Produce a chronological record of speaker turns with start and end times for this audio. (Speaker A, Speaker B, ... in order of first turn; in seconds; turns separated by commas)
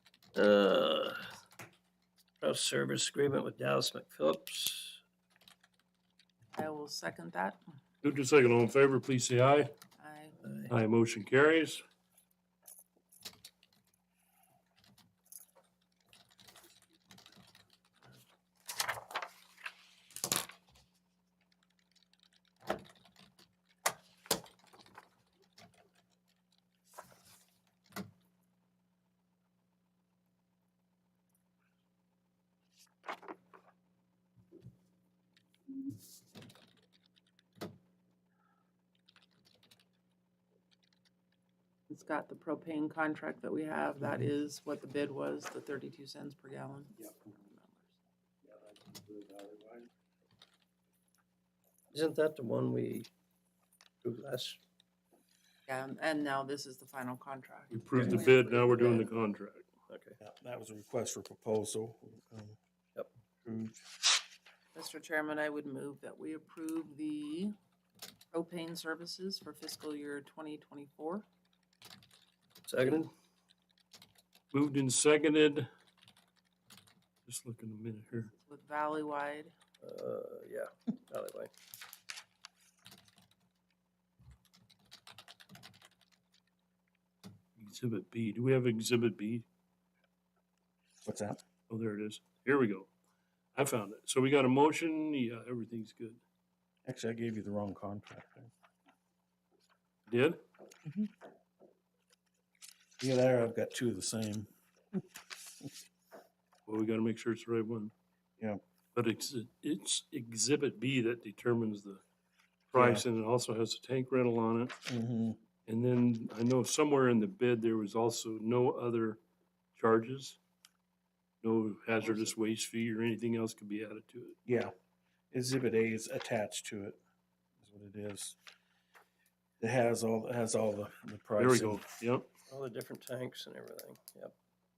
Speaker A: 0.3-1.4, Speaker A: 2.4-5.0, Speaker B: 6.5-7.6, Speaker C: 8.0-9.7, Speaker B: 10.0-10.3, Speaker A: 10.4-10.7, Speaker C: 10.7-11.8, Speaker B: 41.9-47.9, Speaker D: 48.5-49.9, Speaker A: 51.9-53.1, Speaker A: 54.0-54.6, Speaker B: 55.7-59.1, Speaker C: 57.7-59.7, Speaker A: 59.9-60.2, Speaker D: 60.2-62.6, Speaker D: 63.5-63.8, Speaker B: 64.7-67.5, Speaker B: 68.3-71.2, Speaker A: 72.6-73.1, Speaker C: 74.5-75.7, Speaker C: 77.2-78.3, Speaker B: 78.3-79.5, Speaker A: 79.8-81.5, Speaker C: 87.6-89.5, Speaker D: 91.0-91.4, Speaker C: 91.7-92.9, Speaker C: 93.5-96.2, Speaker D: 96.8-98.5, Speaker C: 100.1-100.4, Speaker D: 100.8-101.1, Speaker D: 103.0-104.5, Speaker C: 106.7-107.9, Speaker C: 109.0-112.0, Speaker C: 112.7-114.8, Speaker D: 112.7-113.0, Speaker D: 114.8-115.4, Speaker C: 115.7-119.2, Speaker C: 119.8-120.4, Speaker C: 121.4-124.4, Speaker D: 124.5-124.7, Speaker D: 125.3-127.0, Speaker D: 127.6-128.4, Speaker D: 129.6-131.8, Speaker C: 131.4-132.3, Speaker A: 132.5-134.3